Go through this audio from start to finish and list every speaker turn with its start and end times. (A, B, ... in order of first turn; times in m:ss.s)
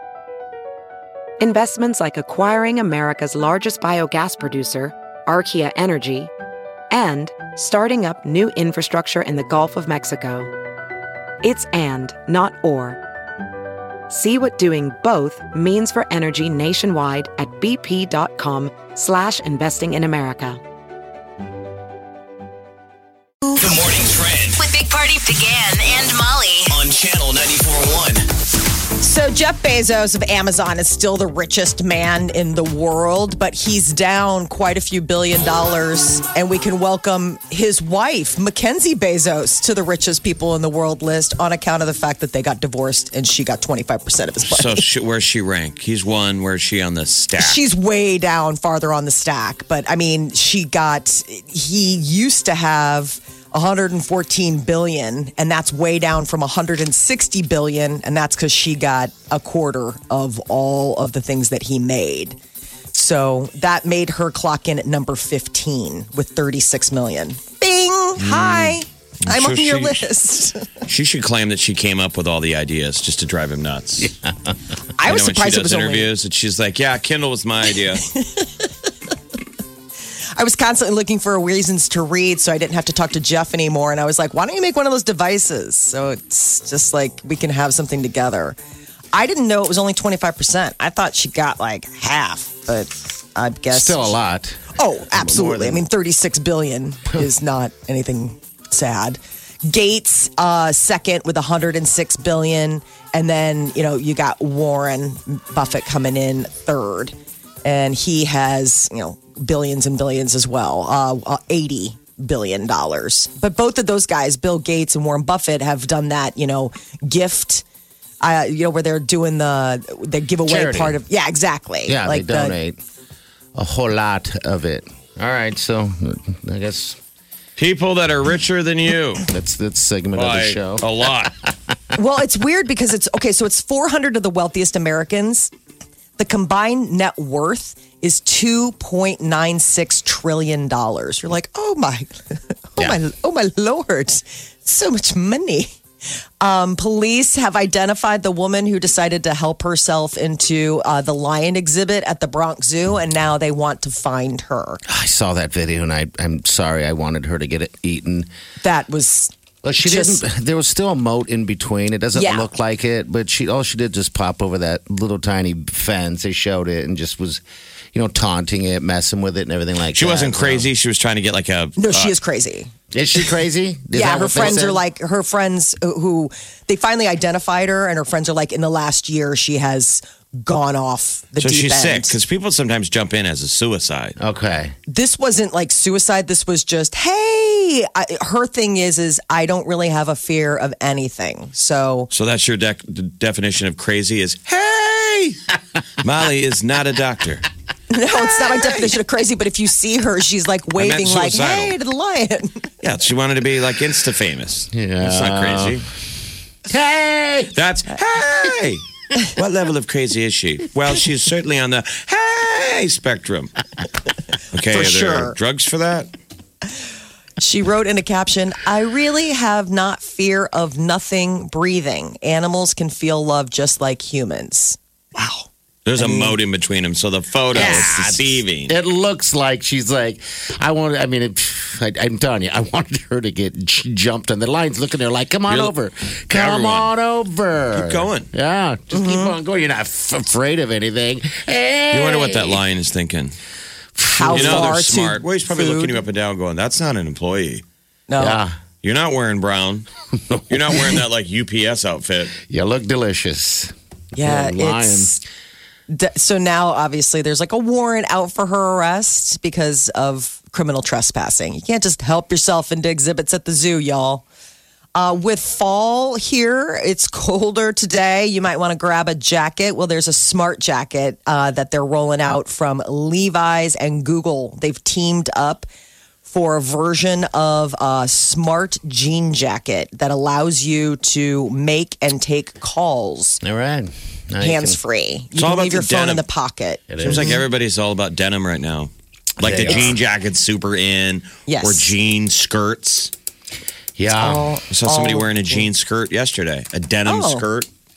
0:01.4-0:06.3 A
0:06.9-0:10.5 A
0:11.4-0:13.0 A
0:14.1-0:20.6 A
0:23.6-0:24.6 B
0:24.6-0:26.7 C
0:26.7-0:28.2 B
0:29.0-0:44.8 D
0:44.4-0:47.6 E
0:47.4-1:02.4 D
1:02.9-1:10.7 D
1:08.2-1:08.6 F
1:09.2-1:10.1 E
1:10.9-1:14.1 E
1:14.0-1:14.6 F
1:15.0-1:16.1 D
1:15.0-1:18.1 E
1:18.1-1:18.7 D
1:20.4-1:28.6 D
1:29.1-1:34.2 D
1:33.7-1:35.8 F
1:34.8-1:57.6 D
1:58.2-2:02.6 D
2:00.4-2:01.0 F
2:01.8-2:02.8 F
2:03.6-2:07.0 F
2:07.6-2:09.3 E
2:09.3-2:11.5 F
2:10.1-2:11.4 E
2:12.0-2:15.5 D
2:16.2-2:25.7 D
2:26.4-2:34.8 D
2:34.9-2:38.3 F
2:38.6-2:40.2 D
2:39.6-2:50.7 F
2:42.1-2:42.5 D
2:49.9-2:52.1 E
2:51.8-2:52.7 D
2:52.9-2:54.8 F
2:53.9-3:02.2 D
3:01.4-3:04.2 E
3:04.2-3:04.8 F
3:04.9-3:12.1 D
3:12.1-3:15.5 E
3:16.0-3:17.5 E
3:17.9-3:22.7 D
3:18.3-3:18.9 E
3:20.8-3:21.8 E
3:22.8-3:25.8 E
3:24.7-3:25.8 F
3:26.7-3:27.6 F
3:27.5-3:33.5 E
3:34.5-3:36.1 E
3:34.7-3:35.4 D
3:37.4-3:46.4 D
3:45.8-3:48.8 E
3:47.5-4:02.6 F
3:55.5-3:55.8 E
3:56.3-3:56.9 E
3:57.7-3:58.3 E
3:58.9-3:59.4 D
4:01.9-4:03.4 E
4:04.0-4:04.7 F
4:04.1-4:06.0 D
4:04.3-4:07.6 E
4:08.1-4:08.4 D
4:08.2-4:08.6 F
4:08.8-4:09.9 E
4:10.2-4:11.0 F
4:10.5-4:12.4 E
4:12.4-4:15.2 F
4:14.2-4:15.2 D
4:15.9-4:24.2 D
4:25.0-4:35.7 D
4:36.3-4:43.4 D
4:43.4-4:44.8 F
4:44.4-4:47.4 D
4:45.4-4:46.3 E
4:46.9-4:47.4 F
4:47.0-4:53.1 E
4:49.4-4:49.9 F
4:51.5-4:51.9 D
4:54.0-4:54.6 F
4:54.1-4:55.7 D
4:54.7-4:57.7 E
4:57.0-4:57.5 D